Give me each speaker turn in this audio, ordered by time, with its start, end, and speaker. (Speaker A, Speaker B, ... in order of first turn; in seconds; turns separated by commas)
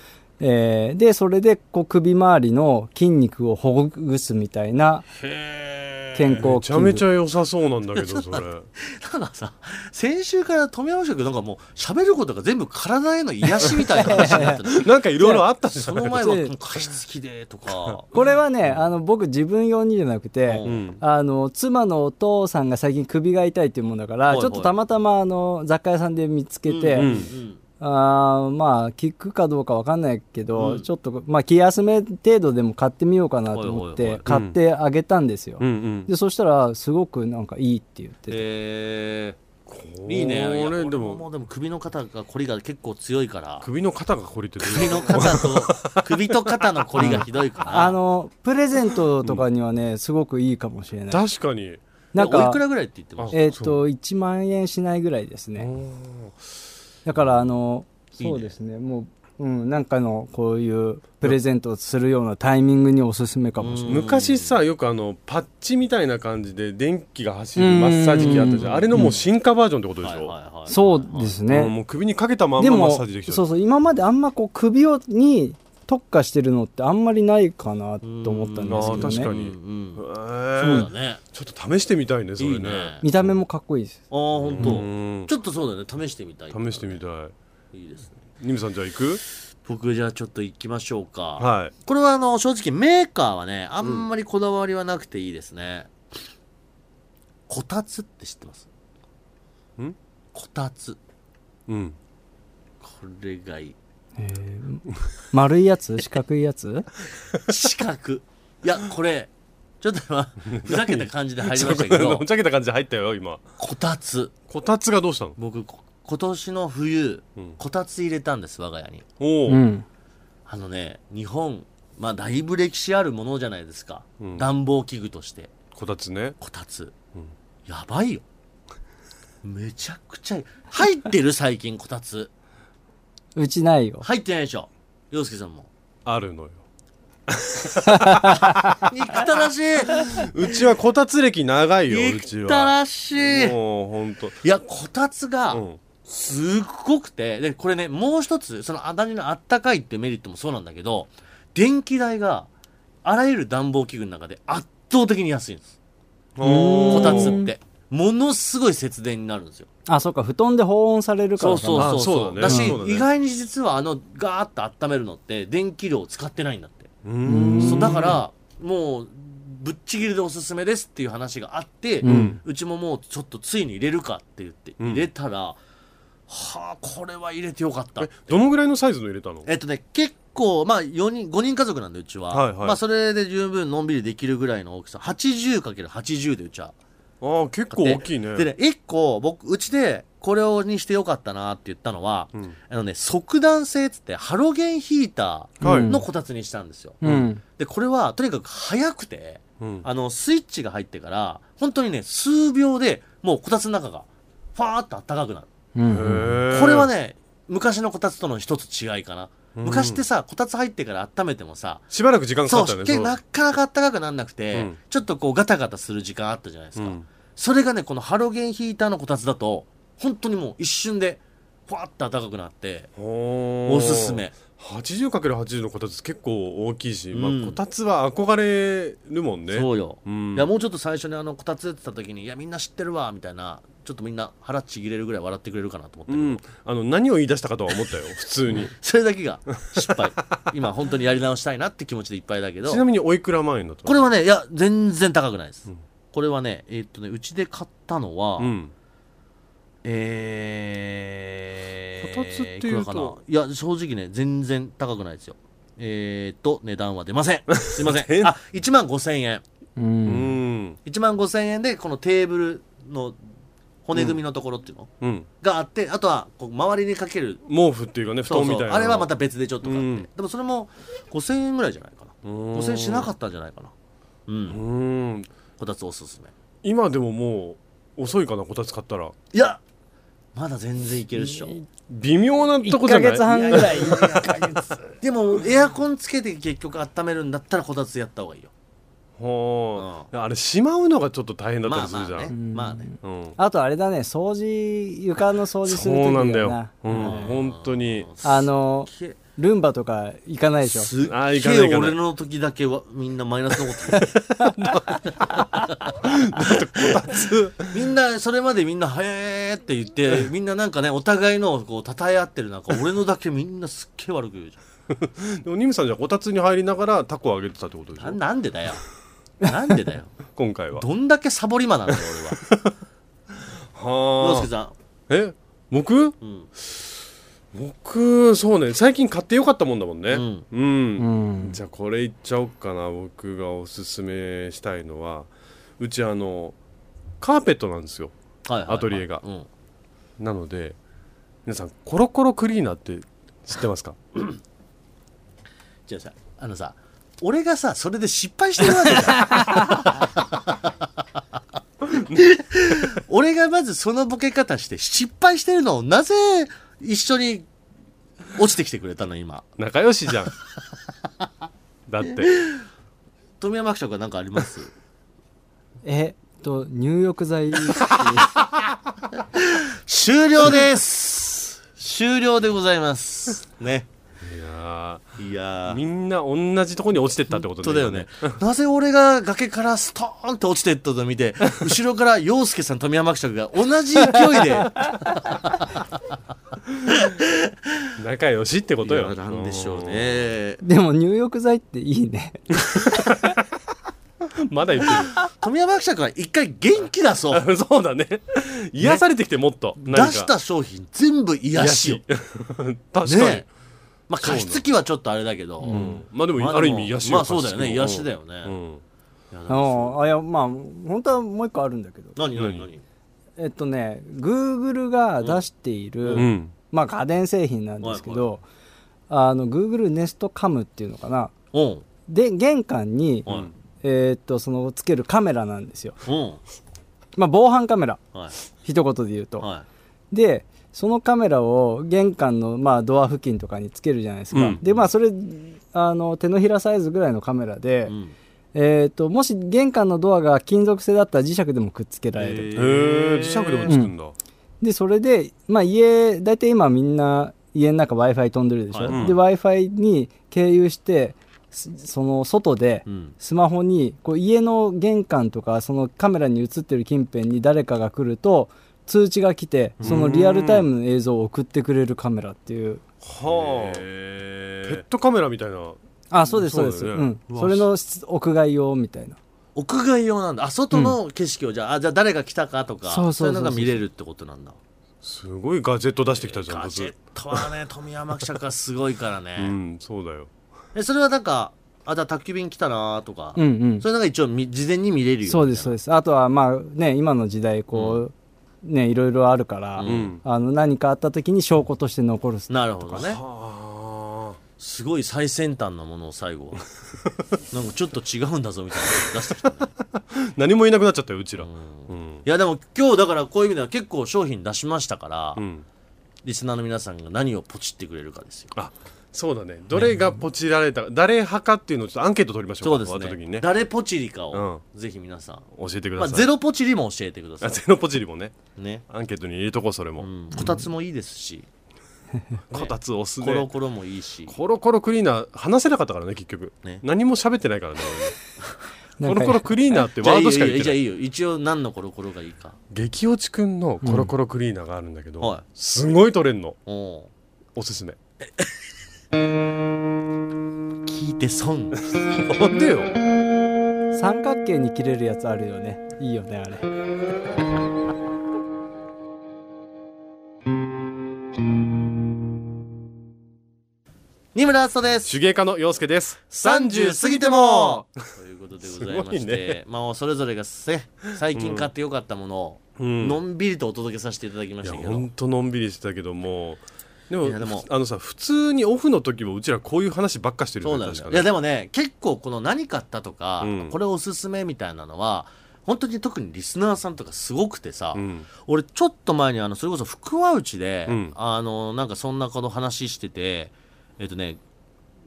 Speaker A: 0.4-5.1, Speaker B: 5.2-6.4, Speaker A: 6.1-7.0, Speaker C: 6.3-8.7, Speaker B: 8.0-18.1, Speaker A: 13.6-14.6, Speaker C: 13.6-16.3, Speaker A: 16.1-16.5, Speaker C: 17.9-18.8, Speaker A: 18.1-27.1, Speaker B: 20.5-20.9, Speaker C: 20.6-21.0, Speaker B: 24.3-24.7, Speaker B: 26.7-27.6, Speaker C: 27.0-27.3, Speaker A: 27.8-38.4, Speaker B: 30.6-30.9, Speaker B: 33.5-34.2, Speaker C: 34.3-34.6, Speaker C: 35.6-36.1, Speaker B: 38.3-39.4, Speaker C: 39.7-41.2, Speaker B: 40.1-43.7, Speaker C: 43.6-47.3, Speaker B: 44.6-48.0, Speaker A: 47.0-51.2, Speaker C: 51.1-51.8, Speaker A: 52.1-52.6, Speaker B: 52.1-53.4, Speaker C: 53.2-53.8, Speaker A: 53.3-55.7, Speaker C: 55.6-56.4, Speaker A: 57.1-64.0, Speaker C: 57.1-57.5, Speaker B: 58.2-58.5, Speaker B: 63.6-64.6, Speaker C: 63.9-70.3, Speaker A: 67.6-69.2, Speaker B: 68.4-68.9, Speaker B: 70.0-71.4, Speaker A: 70.7-71.8, Speaker C: 71.5-73.4, Speaker A: 72.6-79.3, Speaker B: 78.0-80.0, Speaker C: 78.7-83.4, Speaker B: 80.6-81.2, Speaker A: 80.6-80.9, Speaker B: 82.4-83.0, Speaker A: 83.0-84.0, Speaker B: 84.1-87.0, Speaker C: 84.4-85.3, Speaker C: 86.5-87.3, Speaker B: 87.7-88.2, Speaker C: 88.4-89.2, Speaker B: 89.6-95.9, Speaker C: 91.4-91.7, Speaker B: 97.5-98.7, Speaker B: 100.3-101.0, Speaker C: 101.7-102.0, Speaker B: 102.8-103.8, Speaker A: 104.2-106.9, Speaker B: 107.5-109.3, Speaker B: 109.8-112.3, Speaker C: 110.5-113.4, Speaker B: 113.6-114.3, Speaker C: 114.5-115.4, Speaker B: 115.4-119.0, Speaker C: 119.2-119.6, Speaker A: 119.5-119.8, Speaker B: 120.5-125.6, Speaker C: 124.2-124.5, Speaker C: 125.7-126.4, Speaker B: 126.4-126.9, Speaker B: 127.7-128.2, Speaker B: 129.4-132.3, Speaker A: 133.4-134.1, Speaker B: 134.0-135.7, Speaker C: 136.1-136.6, Speaker C: 137.3-138.8, Speaker A: 137.9-138.6, Speaker B: 138.9-140.4, Speaker C: 140.0-144.4, Speaker B: 141.9-143.6, Speaker B: 144.4-152.5, Speaker C: 145.5-145.8, Speaker B: 153.0-155.7, Speaker C: 156.4-157.4, Speaker A: 156.4-157.5, Speaker B: 156.9-159.7, Speaker A: 159.9-162.8, Speaker B: 161.4-166.9, Speaker C: 161.8-163.1, Speaker C: 167.1-168.2, Speaker A: 167.2-168.2, Speaker B: 167.6-175.6, Speaker A: 172.0-172.4, Speaker C: 172.0-172.4, Speaker C: 174.8-175.1, Speaker B: 176.3-178.4, Speaker C: 178.0-179.5, Speaker B: 179.5-186.7, Speaker C: 182.3-182.8, Speaker C: 187.2-188.5, Speaker B: 187.7-205.5, Speaker C: 195.6-196.0, Speaker A: 195.6-196.0, Speaker A: 197.0-197.4, Speaker C: 197.0-197.3, Speaker C: 199.6-199.8, Speaker A: 205.8-206.4, Speaker C: 205.9-206.9, Speaker B: 206.5-211.9, Speaker C: 209.6-210.0, Speaker C: 211.9-213.2, Speaker B: 212.4-222.9, Speaker C: 216.8-217.1, Speaker C: 223.0-230.5, Speaker B: 223.7-224.4, Speaker B: 227.1-227.6, Speaker B: 229.5-236.4, Speaker C: 236.1-238.7, Speaker B: 238.5-242.8, Speaker C: 239.8-240.1, Speaker C: 242.7-244.0, Speaker B: 243.8-248.5, Speaker C: 248.4-248.7, Speaker B: 249.8-259.4, Speaker C: 252.0-253.2, Speaker C: 257.6-258.4, Speaker A: 259.8-260.4, Speaker C: 260.1-260.8, Speaker B: 260.9-263.2, Speaker B: 263.9-264.9, Speaker C: 263.9-264.2, Speaker C: 265.0-265.3, Speaker B: 265.4-267.4, Speaker C: 267.5-269.1, Speaker B: 268.3-273.7, Speaker C: 269.6-270.1, Speaker C: 272.2-273.1, Speaker B: 274.3-274.6, Speaker C: 274.5-275.3, Speaker B: 275.6-276.3, Speaker C: 276.6-279.1, Speaker B: 279.3-279.6, Speaker B: 280.4-281.6, Speaker A: 281.4-281.6, Speaker C: 281.9-284.1, Speaker A: 282.6-285.0, Speaker B: 283.3-288.5, Speaker C: 289.2-292.4, Speaker B: 289.8-290.1, Speaker B: 291.7-292.9, Speaker A: 292.3-297.3, Speaker C: 293.0-293.4, Speaker C: 295.6-298.1, Speaker B: 296.9-299.2, Speaker A: 298.2-300.9, Speaker B: 300.6-304.1, Speaker C: 301.0-302.0, Speaker C: 303.9-307.9, Speaker A: 304.4-304.8, Speaker B: 305.6-307.1, Speaker B: 307.6-314.6, Speaker C: 314.9-318.2, Speaker B: 318.0-318.8, Speaker B: 319.4-320.2, Speaker C: 320.4-320.9, Speaker B: 320.8-322.4, Speaker C: 321.9-322.8, Speaker C: 323.4-324.5, Speaker B: 324.2-324.7, Speaker C: 325.1-327.0, Speaker B: 326.2-326.5, Speaker C: 327.5-336.6, Speaker B: 330.1-330.5, Speaker A: 331.0-331.6, Speaker C: 337.2-338.1, Speaker B: 338.5-339.5, Speaker C: 338.7-339.2, Speaker C: 340.2-340.8, Speaker C: 341.4-344.0, Speaker B: 345.9-350.5, Speaker B: 352.0-357.5, Speaker B: 358.4-359.5, Speaker C: 359.6-360.3, Speaker C: 361.9-362.4, Speaker B: 362.3-362.6, Speaker B: 363.4-364.7, Speaker A: 365.8-368.3, Speaker B: 369.4-373.9, Speaker C: 374.2-375.1, Speaker B: 375.2-375.8, Speaker C: 375.7-378.4, Speaker B: 377.3-385.8, Speaker B: 386.9-387.5, Speaker C: 388.0-390.2, Speaker B: 388.8-390.6, Speaker A: 390.6-393.2, Speaker C: 392.8-393.4, Speaker C: 394.4-395.2, Speaker B: 395.3-397.4, Speaker C: 397.3-400.3, Speaker B: 399.8-402.0, Speaker C: 401.6-403.5, Speaker B: 403.1-403.5, Speaker B: 404.1-408.6, Speaker C: 404.2-404.6, Speaker A: 405.7-406.0, Speaker C: 405.7-408.8, Speaker B: 409.3-410.0, Speaker A: 409.5-412.2, Speaker B: 412.2-412.8, Speaker C: 412.3-412.7, Speaker A: 413.4-418.4, Speaker B: 416.0-416.3, Speaker C: 416.1-416.5, Speaker B: 417.8-418.3, Speaker A: 419.1-421.3, Speaker B: 421.5-421.8, Speaker A: 422.1-423.3, Speaker A: 423.8-426.0, Speaker B: 426.1-426.4, Speaker A: 427.2-428.0, Speaker A: 428.6-429.5, Speaker A: 430.1-437.9, Speaker C: 434.3-434.6, Speaker B: 437.9-438.1, Speaker A: 438.5-442.5, Speaker B: 442.2-443.7, Speaker C: 442.6-444.1, Speaker A: 443.7-443.9, Speaker A: 444.6-462.8, Speaker B: 448.7-449.1, Speaker C: 448.9-449.2, Speaker B: 452.9-453.1, Speaker C: 459.8-460.7, Speaker C: 463.0-463.9, Speaker B: 463.2-464.8, Speaker C: 464.6-467.7, Speaker A: 466.1-469.2, Speaker B: 469.6-474.6, Speaker A: 470.7-471.0, Speaker A: 472.9-473.8, Speaker C: 475.0-477.4, Speaker B: 476.1-479.6, Speaker C: 479.4-480.3, Speaker B: 480.7-485.8, Speaker A: 483.4-483.9, Speaker A: 485.2-492.5, Speaker B: 487.7-488.1, Speaker B: 489.8-490.2, Speaker C: 489.9-490.2, Speaker B: 492.5-493.2, Speaker C: 492.9-494.4, Speaker B: 494.6-496.7, Speaker B: 497.5-499.7, Speaker C: 499.9-502.2, Speaker B: 501.4-505.4, Speaker C: 505.4-505.6, Speaker B: 506.2-508.5, Speaker C: 508.6-513.5, Speaker B: 509.8-510.0, Speaker B: 512.6-517.6, Speaker C: 514.3-514.6, Speaker C: 515.5-516.3, Speaker C: 517.4-518.4, Speaker B: 518.6-518.8, Speaker C: 518.9-520.1, Speaker B: 520.0-521.5, Speaker C: 522.5-523.5, Speaker B: 522.5-524.4, Speaker C: 524.3-528.2, Speaker A: 529.0-529.4, Speaker C: 529.0-530.8, Speaker B: 529.8-532.6, Speaker C: 532.7-536.6, Speaker A: 533.8-534.1, Speaker B: 536.7-537.1, Speaker C: 537.6-538.0, Speaker B: 540.9-541.8, Speaker C: 541.9-543.0, Speaker A: 543.9-546.7, Speaker B: 554.3-555.2, Speaker C: 555.1-557.9, Speaker B: 556.3-565.1, Speaker C: 558.6-559.6, Speaker C: 561.3-561.7, Speaker C: 562.8-563.2, Speaker C: 564.6-571.3, Speaker B: 567.2-567.7, Speaker B: 570.6-584.4, Speaker C: 573.4-573.8, Speaker C: 578.0-578.3, Speaker C: 580.9-581.1